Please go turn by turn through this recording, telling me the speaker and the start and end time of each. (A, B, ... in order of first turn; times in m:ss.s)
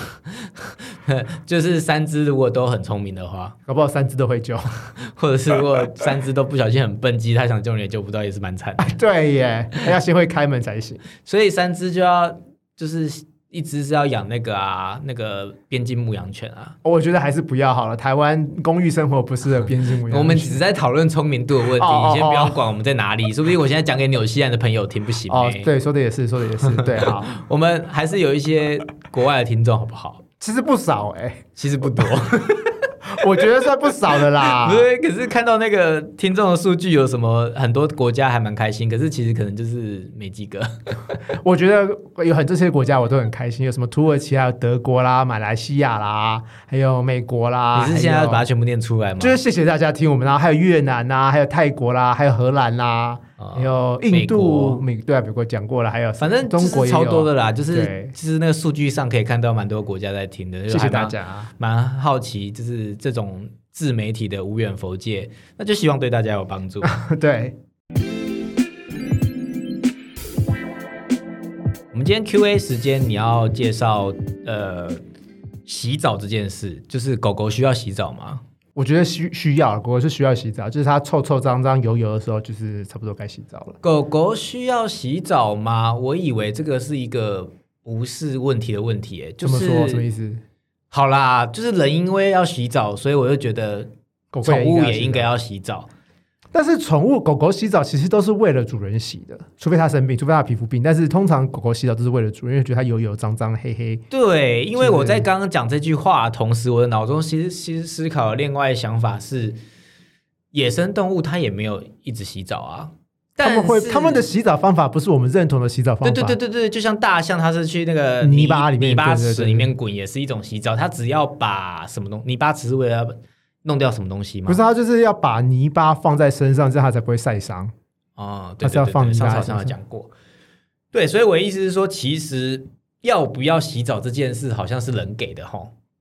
0:00.3-0:03.6 A
0:03.7-0:04.9 B
0:05.0-0:09.0 A
0:08.8-0:11.0 B
0:11.2-0:16.8 A
0:16.8-0:20.6 B
0:20.1-0:25.7 A
0:21.7-0:22.6 B
0:25.3-0:27.3 B
0:26.6-0:30.2 A
0:30.4-0:34.9 B
0:31.6-0:32.8 A
0:34.1-0:41.2 A
0:41.3-0:48.4 B
0:47.7-0:49.4 A
0:49.2-0:58.1 B
0:53.4-0:54.8 A
0:56.2-1:06.9 A
1:00.7-1:01.5 B
1:06.8-1:07.6 B
1:11.9-1:15.0 A
1:15.6-1:18.4 A
1:18.7-1:23.8 B
1:23.8-1:30.0 A
1:29.4-1:30.4 B
1:30.9-1:33.9 A
1:34.3-1:35.3 B
1:34.4-1:35.9 A
1:36.5-1:44.0 B
1:44.1-1:49.6 A
1:44.8-1:45.3 B
1:50.5-1:54.2 A
1:53.4-1:56.4 B
1:56.0-2:04.6 A
1:58.2-1:59.7 B
2:04.5-2:07.7 B
2:08.2-2:10.1 A
2:08.6-2:09.8 B
2:10.9-2:15.7 A